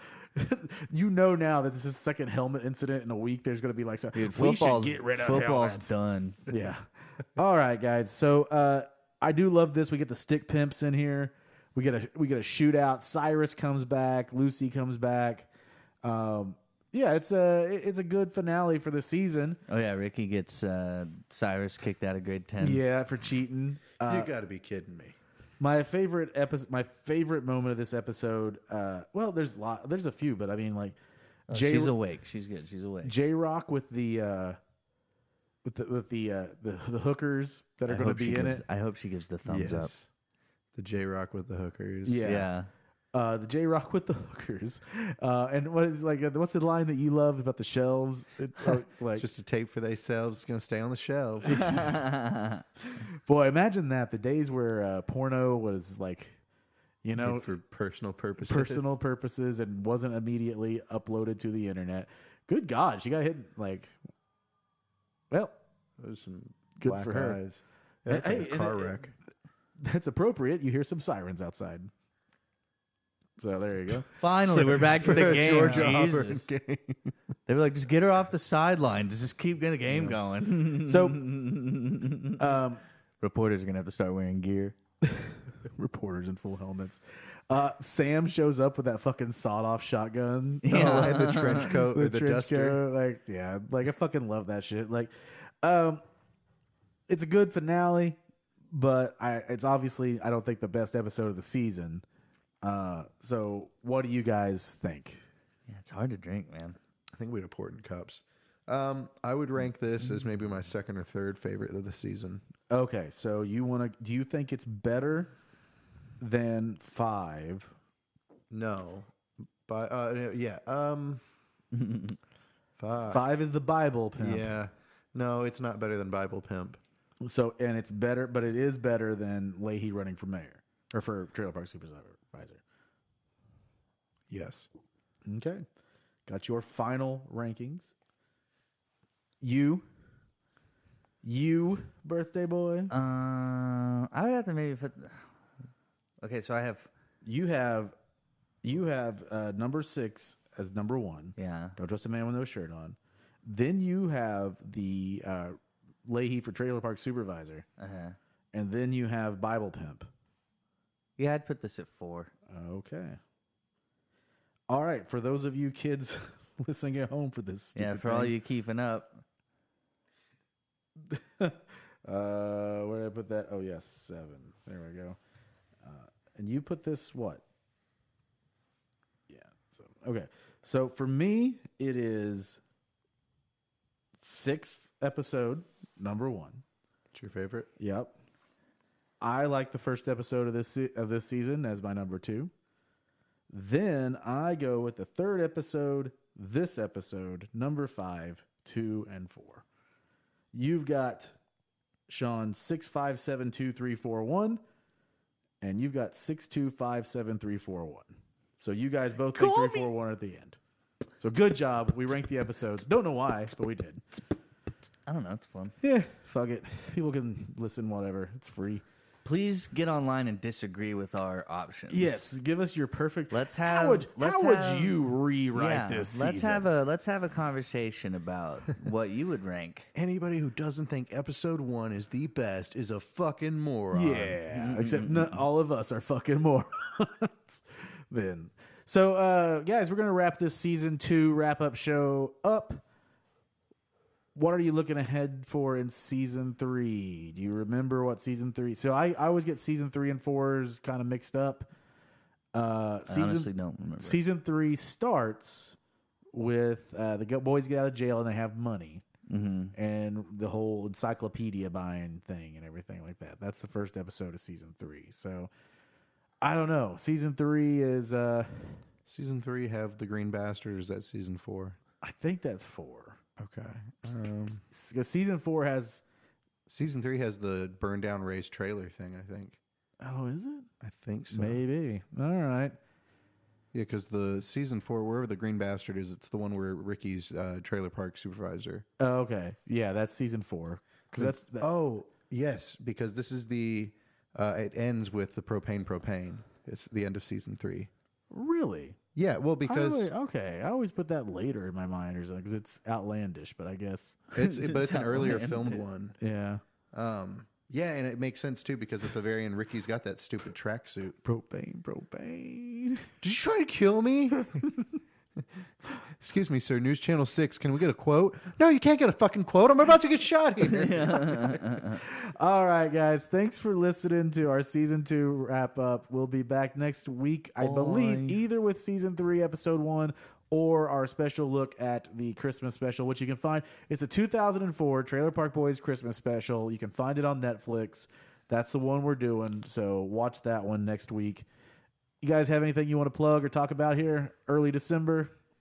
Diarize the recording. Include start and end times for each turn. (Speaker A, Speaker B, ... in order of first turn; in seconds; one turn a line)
Speaker A: 0.2-15.5
Speaker B: 4.1-6.4
Speaker A: 16.0-19.6
Speaker B: 19.7-22.8
Speaker A: 22.6-24.3
Speaker C: 24.0-25.2
Speaker A: 25.6-31.0
Speaker A: 31.5-31.9
Speaker B: 31.5-33.1
Speaker A: 33.0-34.6
Speaker A: 35.6-38.6
Speaker B: 37.9-39.9
Speaker C: 39.4-40.1
Speaker C: 40.7-42.3
Speaker A: 42.0-42.5
Speaker B: 42.2-42.7
Speaker A: 43.1-49.3
Speaker C: 49.1-51.8
Speaker A: 51.5-51.8
Speaker B: 51.6-52.6
Speaker A: 53.0-56.4
Speaker A: 57.0-57.5
Speaker C: 57.2-58.9
Speaker A: 58.4-63.9
Speaker A: 65.3-65.5
Speaker C: 66.0-69.1
Speaker A: 66.8-67.4
Speaker A: 68.1-69.0
Speaker A: 69.8-71.9
Speaker A: 73.4-74.1
Speaker B: 74.2-76.5
Speaker C: 74.5-77.2
Speaker A: 75.3-76.0
Speaker B: 77.5-82.6
Speaker A: 79.9-80.2
Speaker A: 80.8-81.3
Speaker A: 82.4-82.8
Speaker B: 83.2-84.7
Speaker A: 85.0-96.0
Speaker B: 90.6-91.8
Speaker C: 90.7-92.8
Speaker A: 97.1-98.2
Speaker A: 98.7-102.0
Speaker A: 102.6-105.2
Speaker B: 105.7-106.8
Speaker C: 107.1-112.4
Speaker A: 112.7-115.3
Speaker A: 116.2-117.7
Speaker C: 118.5-119.1
Speaker C: 119.6-121.2
Speaker B: 121.7-122.2
Speaker C: 122.8-123.3
Speaker A: 123.0-124.6
Speaker C: 124.2-126.8
Speaker A: 127.2-132.6
Speaker C: 134.3-134.7
Speaker A: 135.2-135.6
Speaker A: 136.2-137.9
Speaker A: 139.4-139.9
Speaker A: 141.2-142.9
Speaker B: 142.9-145.2
Speaker B: 146.2-146.9
Speaker A: 147.2-147.9
Speaker A: 148.6-157.7
Speaker B: 151.4-151.8
Speaker B: 157.8-158.2
Speaker A: 158.5-160.1
Speaker B: 161.2-162.3
Speaker A: 162.5-163.2
Speaker A: 164.7-168.3
Speaker B: 167.7-169.2
Speaker A: 171.1-175.2
Speaker A: 175.8-177.4
Speaker A: 179.3-182.6
Speaker A: 184.2-186.6
Speaker C: 187.1-187.7
Speaker A: 187.8-188.1
Speaker A: 189.2-192.5
Speaker A: 193.5-199.6
Speaker A: 200.5-201.3
Speaker A: 202.1-204.6
Speaker A: 205.6-210.6
Speaker B: 209.3-209.9
Speaker A: 211.2-214.2
Speaker B: 215.1-215.7
Speaker A: 215.8-218.8
Speaker B: 219.2-222.3
Speaker A: 221.9-226.7
Speaker B: 223.3-225.0
Speaker B: 225.5-229.9
Speaker C: 229.9-234.4
Speaker A: 233.9-242.8
Speaker B: 234.5-235.4
Speaker A: 244.3-251.7
Speaker A: 252.5-255.8
Speaker B: 253.1-254.2
Speaker A: 256.3-259.0
Speaker B: 259.3-259.7
Speaker A: 259.7-265.5
Speaker A: 266.4-268.8
Speaker C: 269.1-271.8
Speaker A: 272.0-273.2
Speaker C: 273.4-274.6
Speaker A: 274.7-276.0
Speaker C: 276.7-279.6
Speaker A: 280.0-280.7
Speaker C: 280.8-281.6
Speaker A: 281.3-282.8
Speaker C: 283.7-288.8
Speaker A: 289.0-291.7
Speaker C: 291.1-297.9
Speaker A: 298.3-299.0
Speaker C: 299.1-300.1
Speaker A: 299.6-304.2
Speaker C: 304.3-306.2
Speaker B: 304.3-305.8
Speaker A: 306.2-306.6
Speaker C: 306.9-311.2
Speaker A: 311.2-313.1
Speaker C: 313.2-314.5
Speaker C: 316.2-321.6
Speaker B: 320.6-322.0
Speaker A: 322.0-341.4
Speaker B: 327.6-328.4
Speaker A: 342.2-345.3